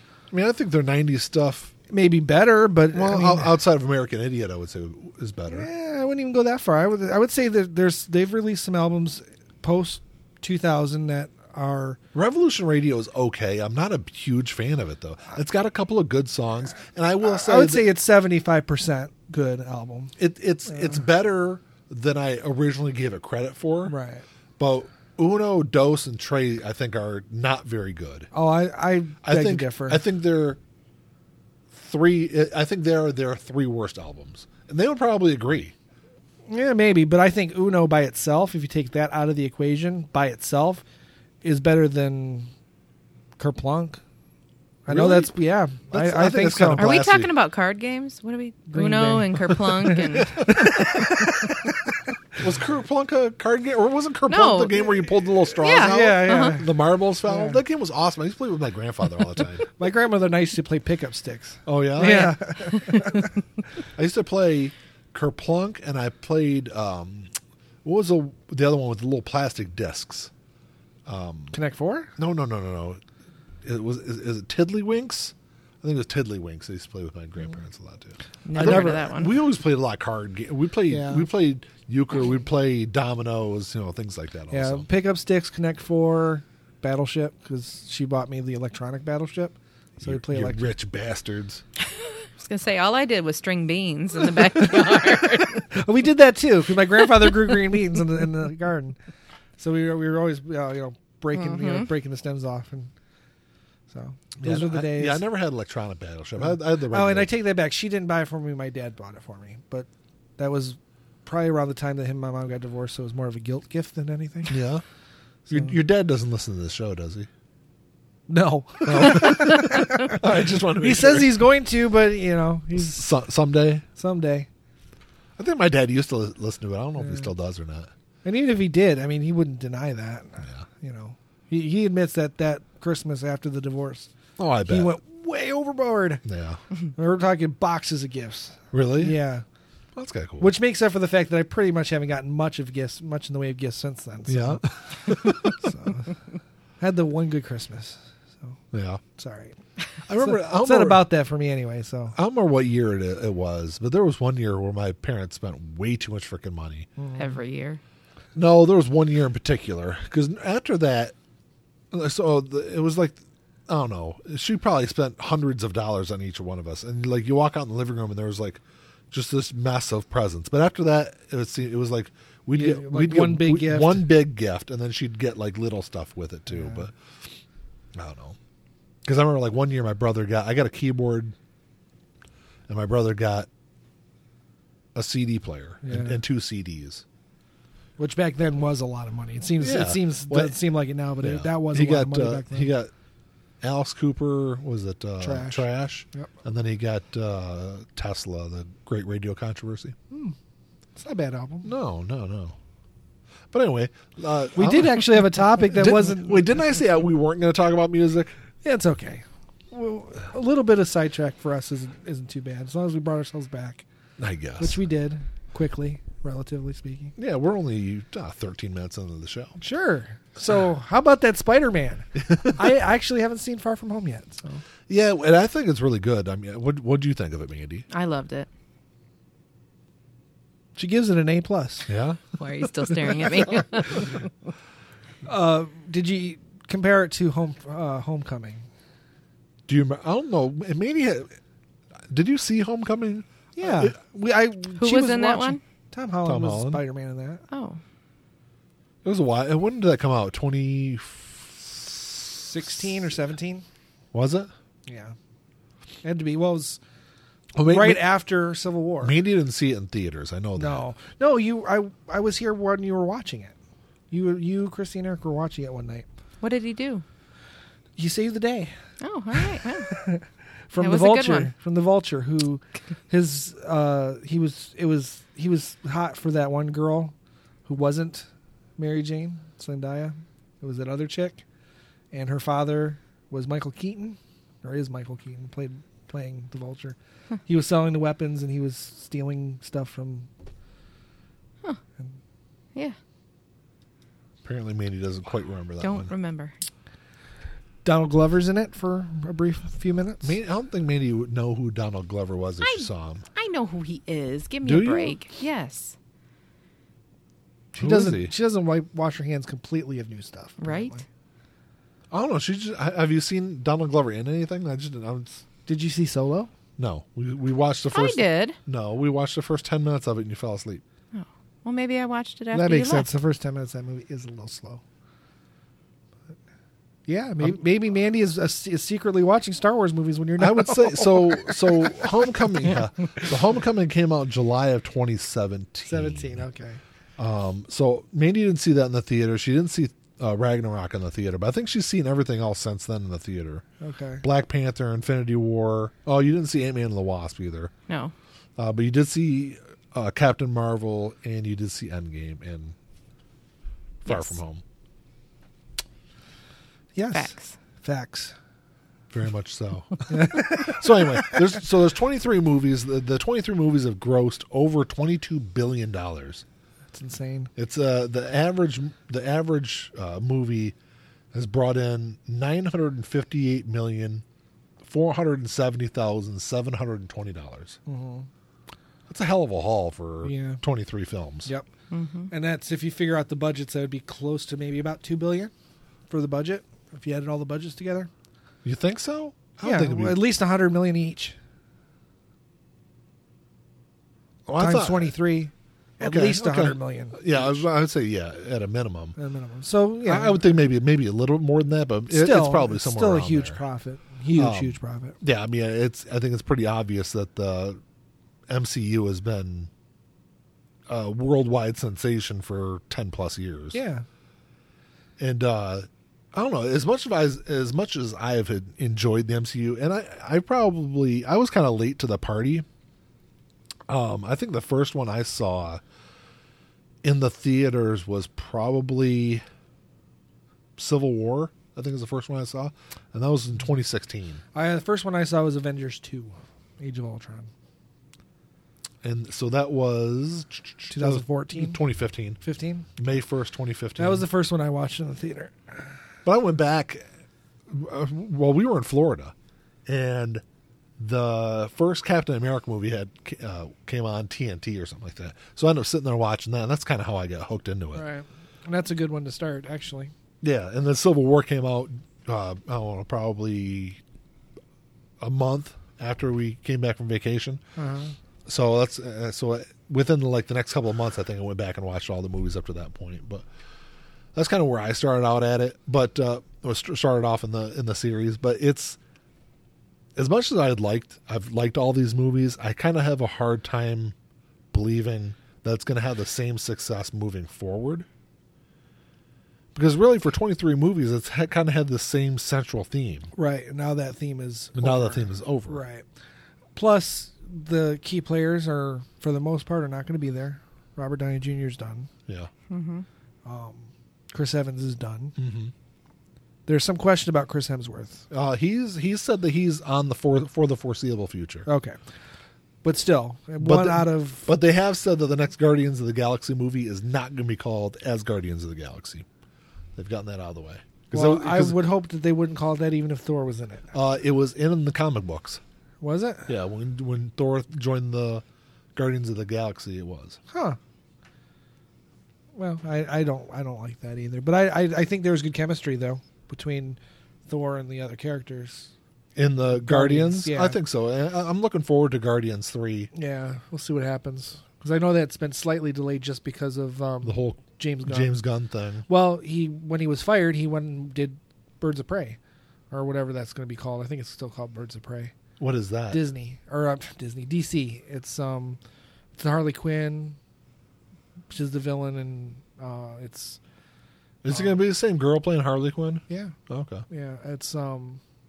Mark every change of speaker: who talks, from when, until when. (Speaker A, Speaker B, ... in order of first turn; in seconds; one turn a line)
Speaker A: 0.3-1.7
Speaker B: 1.9-3.5
Speaker A: 2.9-5.7
Speaker B: 5.5-12.0
Speaker A: 12.1-17.9
Speaker B: 17.3-20.1
Speaker A: 20.2-24.0
Speaker B: 20.7-21.0
Speaker B: 23.9-24.2
Speaker A: 24.6-28.3
Speaker B: 28.3-30.0
Speaker A: 29.2-30.6
Speaker A: 31.7-35.7
Speaker B: 36.5-40.8
Speaker B: 41.4-42.5
Speaker B: 43.4-44.0
Speaker B: 44.9-46.9
Speaker A: 44.9-47.3
Speaker C: 46.8-50.7
Speaker B: 48.7-51.5
Speaker A: 52.4-59.6
Speaker C: 54.3-55.0
Speaker C: 55.6-56.6
Speaker B: 55.7-56.7
Speaker B: 57.2-57.6
Speaker B: 59.8-63.3
Speaker A: 61.7-62.4
Speaker C: 62.0-63.2
Speaker A: 64.0-67.3
Speaker A: 67.8-70.3
Speaker A: 71.1-71.5
Speaker B: 71.5-72.1
Speaker A: 72.2-73.0
Speaker A: 73.6-84.9
Speaker C: 78.5-79.4
Speaker B: 78.5-79.1
Speaker B: 80.9-81.3
Speaker B: 84.5-90.7
Speaker A: 90.0-91.6
Speaker C: 92.4-95.6
Speaker B: 94.8-99.0
Speaker B: 99.6-102.9
Speaker C: 101.3-101.9
Speaker B: 103.9-105.2
Speaker A: 104.4-107.3
Speaker B: 106.9-114.6
Speaker A: 114.5-114.8
Speaker A: 115.5-117.3
Speaker B: 115.5-115.8
Speaker B: 118.3-123.1
Speaker A: 118.8-121.4
Speaker A: 122.8-123.8
Speaker B: 124.0-124.5
Speaker A: 125.4-127.9
Speaker B: 127.0-127.3
Speaker B: 128.2-134.1
Speaker A: 134.4-135.0
Speaker B: 134.7-136.2
Speaker A: 136.2-136.6
Speaker B: 136.9-139.4
Speaker A: 138.7-139.2
Speaker A: 139.9-140.5
Speaker B: 140.4-146.2
Speaker A: 144.3-145.6
Speaker B: 146.8-148.6
Speaker A: 148.7-149.0
Speaker B: 149.2-149.6
Speaker A: 150.1-151.1
Speaker B: 150.2-152.2
Speaker A: 152.2-156.9
Speaker B: 157.0-157.3
Speaker C: 157.2-157.8
Speaker A: 158.3-161.2
Speaker A: 161.9-177.3
Speaker B: 172.5-174.2
Speaker B: 176.5-176.8
Speaker A: 177.9-178.4
Speaker A: 179.0-181.3
Speaker A: 182.7-183.5
Speaker A: 184.9-187.0
Speaker B: 185.8-186.2
Speaker B: 188.0-192.7
Speaker A: 189.6-190.6
Speaker A: 191.2-192.9
Speaker A: 193.6-199.9
Speaker B: 195.2-196.3
Speaker B: 200.1-200.3
Speaker B: 201.0-201.7
Speaker A: 201.6-202.6
Speaker A: 203.5-208.3
Speaker B: 204.6-206.4
Speaker B: 208.6-213.8
Speaker A: 214.2-214.8
Speaker B: 214.6-217.1
Speaker A: 217.2-219.6
Speaker B: 219.6-224.6
Speaker A: 222.2-222.7
Speaker A: 224.9-227.9
Speaker C: 227.9-228.5
Speaker B: 230.8-231.9
Speaker A: 231.9-232.2
Speaker C: 232.4-234.3
Speaker B: 235.3-238.7
Speaker A: 239.7-241.3
Speaker A: 242.1-243.9
Speaker B: 243.6-247.4
Speaker C: 244.8-245.6
Speaker A: 246.2-246.8
Speaker C: 247.5-247.8
Speaker A: 249.0-253.0
Speaker B: 252.5-253.7
Speaker A: 254.1-254.5
Speaker B: 254.9-255.2
Speaker B: 256.0-256.8
Speaker A: 257.6-258.1
Speaker B: 257.6-259.1
Speaker A: 259.0-260.8
Speaker B: 260.6-263.6
Speaker B: 264.1-266.1
Speaker C: 266.4-267.0
Speaker B: 268.0-268.7
Speaker C: 269.0-270.0
Speaker B: 269.3-277.1
Speaker C: 270.8-271.5
Speaker B: 277.7-281.4
Speaker B: 282.1-287.0
Speaker B: 287.5-290.3
Speaker A: 294.4-296.1
Speaker C: 295.8-296.5
Speaker B: 297.9-300.4
Speaker A: 300.2-303.2
Speaker C: 302.6-305.9
Speaker A: 304.6-305.2
Speaker B: 307.7-311.0
Speaker A: 307.8-308.3
Speaker C: 310.6-311.0
Speaker A: 312.1-315.4
Speaker B: 315.7-316.5
Speaker A: 316.8-320.8
Speaker C: 317.9-318.6
Speaker C: 321.1-323.1
Speaker B: 322.5-324.8
Speaker B: 327.1-332.1
Speaker A: 330.4-336.4
Speaker B: 335.9-336.8
Speaker A: 337.2-343.6
Speaker B: 343.8-344.2
Speaker A: 344.2-347.7
Speaker C: 347.9-348.1
Speaker A: 348.6-352.8
Speaker A: 354.0-354.6
Speaker C: 354.1-354.4
Speaker B: 357.0-358.4
Speaker C: 357.1-357.5
Speaker A: 359.1-366.4
Speaker B: 360.1-361.4
Speaker B: 366.9-367.5
Speaker A: 367.6-370.8
Speaker A: 371.3-374.2
Speaker A: 374.8-377.8
Speaker B: 377.9-378.3
Speaker A: 379.1-381.5
Speaker B: 380.2-380.6
Speaker C: 381.9-382.3
Speaker B: 382.3-385.5
Speaker B: 386.1-388.1
Speaker A: 388.6-390.2
Speaker B: 389.6-391.4
Speaker A: 394.5-395.1
Speaker B: 394.6-397.6
Speaker A: 396.0-399.2
Speaker B: 399.2-400.4
Speaker A: 400.1-403.6
Speaker B: 402.1-405.2
Speaker A: 404.4-407.8
Speaker A: 408.5-409.7
Speaker A: 410.9-413.8
Speaker B: 413.7-414.1
Speaker A: 415.2-422.7
Speaker A: 423.9-425.8
Speaker A: 427.0-429.4
Speaker A: 430.8-434.4
Speaker B: 434.5-437.5
Speaker A: 439.0-442.4
Speaker B: 440.9-441.8
Speaker B: 442.4-442.9
Speaker A: 443.0-444.2
Speaker B: 444.0-445.9
Speaker A: 446.2-447.0
Speaker A: 447.7-449.3
Speaker A: 449.9-450.4
Speaker A: 451.0-458.0
Speaker B: 457.9-460.1
Speaker A: 460.4-464.0
Speaker A: 465.2-467.6
Speaker B: 467.8-468.1
Speaker A: 468.5-473.5
Speaker A: 474.4-479.0
Speaker A: 480.2-484.1
Speaker A: 484.7-488.1
Speaker A: 489.7-493.3
Speaker B: 493.4-496.1
Speaker A: 494.8-495.8
Speaker B: 496.8-502.1
Speaker C: 502.7-503.1
Speaker B: 503.4-505.4
Speaker A: 505.4-505.7
Speaker B: 506.7-508.3
Speaker A: 508.3-511.7
Speaker B: 511.7-512.0
Speaker B: 512.8-514.5
Speaker A: 513.6-519.3
Speaker A: 520.0-521.9
Speaker B: 521.1-523.9
Speaker A: 523.9-525.6
Speaker B: 526.0-526.5
Speaker A: 526.5-528.4
Speaker A: 529.0-530.4
Speaker B: 530.5-530.8
Speaker B: 532.5-538.9
Speaker A: 539.4-543.1
Speaker B: 539.7-540.8
Speaker B: 543.1-548.4
Speaker A: 547.2-549.1
Speaker B: 549.1-552.4
Speaker B: 552.9-555.3
Speaker A: 555.6-556.2
Speaker B: 556.1-558.8
Speaker B: 559.4-560.4
Speaker B: 561.5-563.6
Speaker A: 564.4-567.0
Speaker B: 564.5-564.7
Speaker B: 566.3-566.6
Speaker B: 567.1-568.2